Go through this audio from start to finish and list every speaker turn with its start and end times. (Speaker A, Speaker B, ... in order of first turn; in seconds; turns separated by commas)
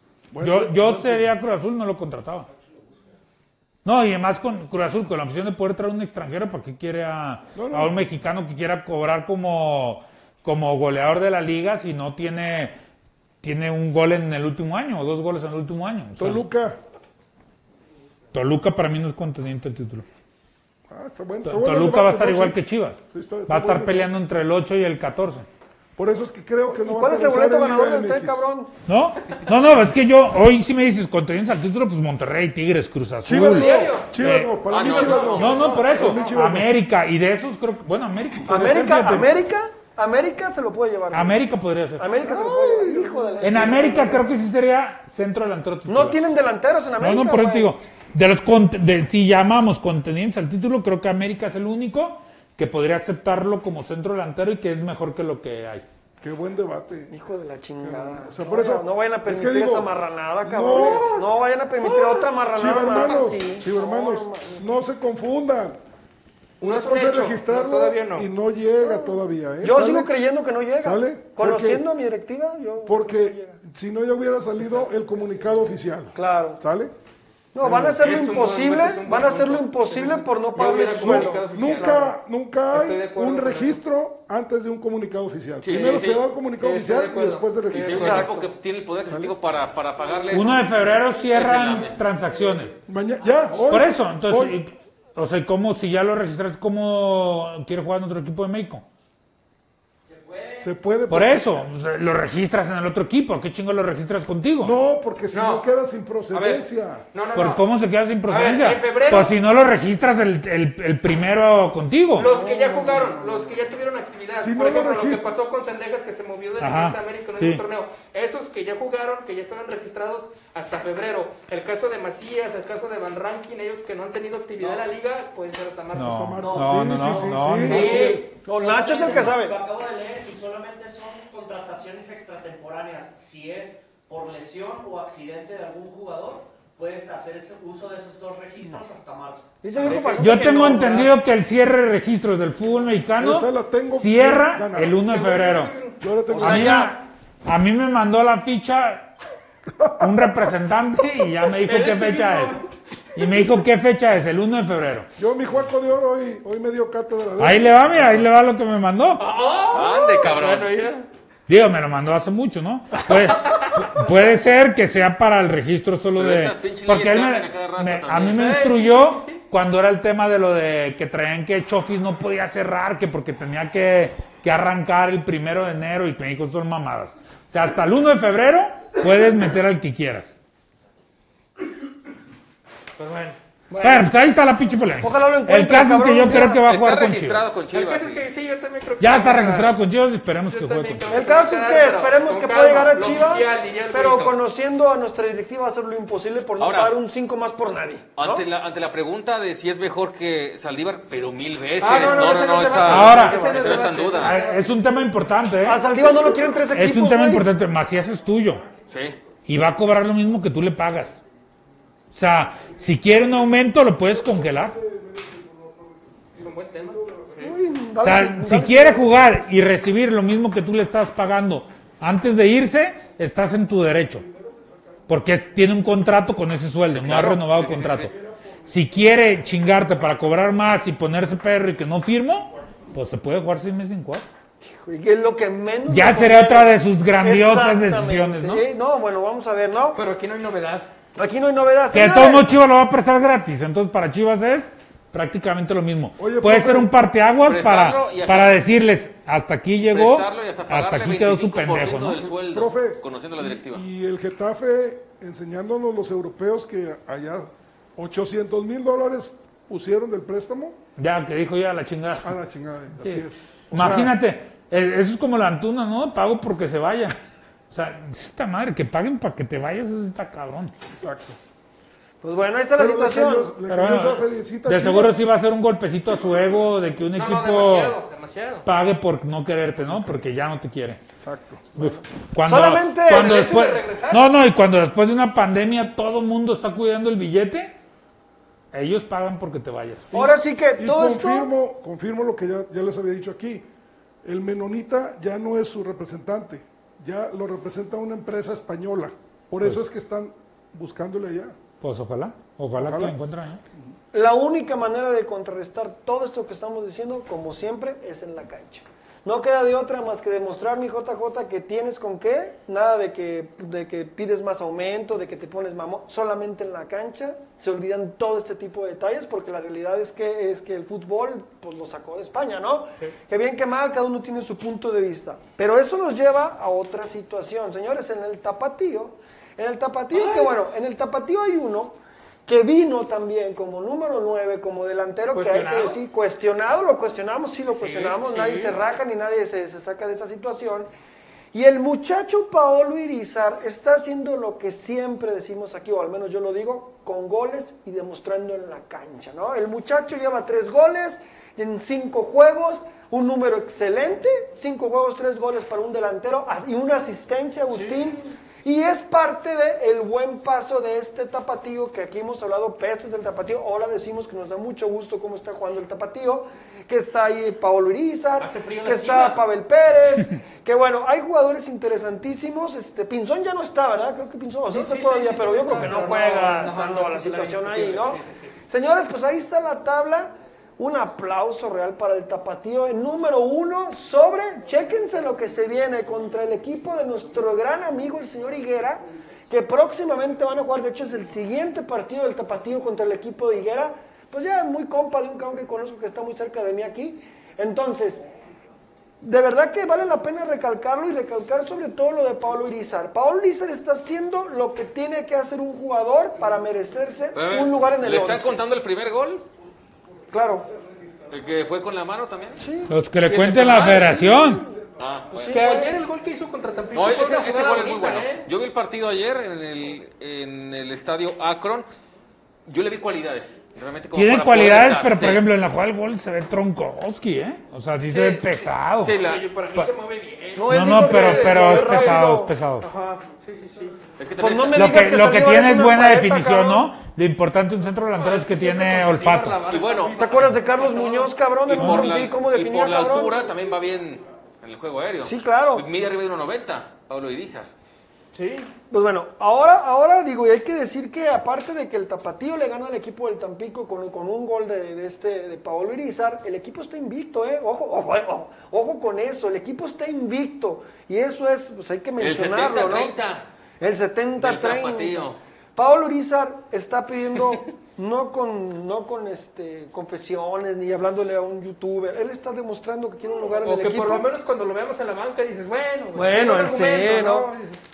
Speaker A: 0.3-1.3, Speaker B: 0.4-2.5, Speaker B: 3.9-12.7, Speaker A: 7.5-8.0, Speaker B: 13.4-16.4, Speaker A: 16.2-16.8, Speaker B: 18.3-20.1, Speaker A: 20.9-22.6, Speaker B: 21.4-25.5, Speaker A: 23.1-24.1, Speaker A: 26.0-28.4, Speaker C: 26.7-28.7, Speaker B: 28.9-34.5, Speaker A: 33.2-36.7, Speaker D: 33.4-36.3, Speaker E: 34.7-35.5, Speaker B: 35.3-39.4, Speaker C: 38.5-41.5, Speaker B: 41.1-42.1, Speaker C: 42.0-44.3, Speaker A: 42.2-44.2, Speaker B: 43.4-46.2, Speaker C: 45.9-47.7, Speaker B: 47.0-55.9, Speaker A: 56.2-57.1, Speaker C: 57.1-64.7, Speaker A: 57.8-61.3, Speaker D: 60.7-61.0, Speaker D: 61.9-62.2, Speaker A: 62.5-65.8, Speaker A: 66.6-70.1, Speaker D: 66.6-68.3, Speaker C: 68.8-73.6, Speaker A: 70.8-71.9, Speaker A: 72.8-76.9, Speaker D: 74.6-74.9, Speaker C: 76.2-76.6, Speaker C: 77.5-82.0, Speaker A: 77.6-78.0, Speaker D: 78.0-82.2, Speaker A: 80.5-88.3, Speaker D: 82.7-83.8, Speaker E: 85.6-86.3, Speaker D: 85.7-86.1, Speaker D: 86.6-88.3, Speaker E: 87.7-92.0, Speaker C: 87.9-88.5, Speaker A: 89.1-89.3, Speaker B: 90.3-92.8, Speaker A: 92.9-94.6, Speaker F: 93.2-94.0, Speaker B: 93.7-98.8, Speaker F: 100.1-100.8, Speaker A: 100.6-101.7, Speaker B: 101.1-104.7, Speaker A: 104.6-107.0, Speaker D: 105.3-105.7, Speaker D: 106.3-107.6, Speaker B: 107.3-112.3, Speaker D: 108.3-109.4, Speaker D: 112.2-126.3, Speaker A: 112.2-113.6, Speaker A: 114.4-115.3, Speaker B: 116.6-117.6, Speaker B: 126.0-128.1, Speaker A: 126.0-128.3, Speaker F: 126.4-139.5, Speaker D: 127.6-129.3, Speaker C: 128.4-129.6, Speaker C: 139.6-141.1, Speaker D: 139.8-141.1, Speaker B: 140.2-145.7, Speaker A: 143.2-145.0, Speaker D: 145.0-146.0, Speaker A: 146.0-146.9, Speaker B: 146.4-149.1, Speaker C: 146.4-147.0, Speaker A: 149.7-150.5, Speaker B: 150.0-152.6, Speaker D: 151.7-152.7, Speaker B: 153.2-155.1, Speaker A: 155.2-158.3, Speaker B: 157.4-159.2, Speaker D: 159.2-161.1, Speaker E: 159.7-160.7, Speaker B: 161.5-180.3, Speaker D: 163.4-163.7, Speaker E: 166.2-168.5, Speaker D: 168.3-169.4, Speaker D: 183.0-183.4, Speaker C: 183.7-184.1, Speaker B: 183.8-187.4, Speaker C: 185.0-186.6, Speaker E: 186.6-188.3, Speaker D: 187.7-189.8, Speaker B: 189.0-191.1, Speaker D: 190.5-194.4, Speaker C: 191.1-198.4, Speaker E: 196.6-197.0, Speaker E: 198.2-204.4, Speaker D: 201.8-204.7, Speaker B: 202.8-203.6, Speaker B: 204.1-205.9, Speaker C: 205.6-207.5, Speaker A: 206.0-206.7, Speaker B: 206.7-208.7, Speaker A: 207.9-209.5, Speaker E: 208.9-209.2, Speaker B: 209.5-211.2, Speaker B: 212.1-214.8, Speaker A: 212.7-217.6, Speaker D: 216.4-217.5, Speaker C: 217.4-219.2, Speaker B: 218.0-224.2, Speaker A: 224.0-225.4, Speaker B: 225.1-228.1, Speaker E: 226.9-228.1, Speaker A: 227.5-229.6, Speaker B: 228.7-234.2, Speaker C: 234.6-240.0, Speaker B: 235.9-238.6, Speaker D: 239.9-240.9, Speaker C: 241.2-242.5, Speaker B: 241.9-252.3, Speaker A: 246.2-246.9, Speaker E: 247.4-248.6, Speaker E: 249.9-253.9, Speaker A: 252.4-260.8, Speaker B: 261.0-262.4, Speaker A: 262.2-264.1, Speaker B: 263.0-267.2, Speaker B: 267.7-270.7, Speaker A: 270.9-271.4, Speaker C: 272.2-273.6, Speaker A: 272.8-275.2, Speaker B: 273.7-278.0, Speaker D: 277.1-278.7, Speaker B: 278.7-281.0, Speaker A: 279.9-280.2, Speaker A: 281.2-281.9, Speaker B: 281.8-287.7, Speaker C: 281.8-283.5, Speaker D: 283.1-284.3, Speaker B: 288.7-290.3, Speaker A: 290.1-293.7, Speaker C: 290.1-291.5, Speaker A: 294.2-301.6, Speaker B: 301.8-303.6, Speaker A: 302.8-303.2, Speaker C: 304.1-340.9, Speaker D: 330.1-330.5, Speaker D: 335.3-336.0, Speaker D: 337.8-338.8, Speaker C: 341.5-398.3, Speaker D: 357.7-358.3, Speaker D: 368.4-369.4, Speaker D: 374.7-378.5, Speaker C: 399.2-408.6, Speaker E: 407.3-409.4, Speaker A: 410.3-411.6, Speaker C: 410.3-410.7, Speaker E: 411.3-412.6, Speaker C: 412.6-413.0, Speaker B: 412.9-414.6, Speaker D: 413.3-414.5, Speaker A: 414.2-415.2, Speaker E: 415.0-415.6, Speaker C: 415.3-415.9, Speaker D: 415.4-418.5, Speaker E: 416.9-421.9, Speaker E: 422.7-425.4, Speaker B: 424.1-429.2, Speaker D: 428.1-434.0, Speaker E: 429.0-429.4, Speaker C: 430.6-432.5, Speaker B: 430.7-432.9, Speaker E: 434.2-435.0, Speaker C: 434.4-436.9, Speaker B: 434.8-439.6, Speaker D: 438.1-441.4, Speaker E: 439.7-440.2, Speaker C: 440.2-443.5, Speaker E: 441.7-447.7, Speaker B: 441.8-442.2, Speaker C: 445.2-445.9, Speaker D: 448.3-448.7, Speaker C: 448.9-463.2, Speaker E: 462.2-463.5, Speaker C: 463.8-474.3, Speaker E: 464.4-465.4, Speaker D: 473.6-477.8, Speaker C: 476.1-477.5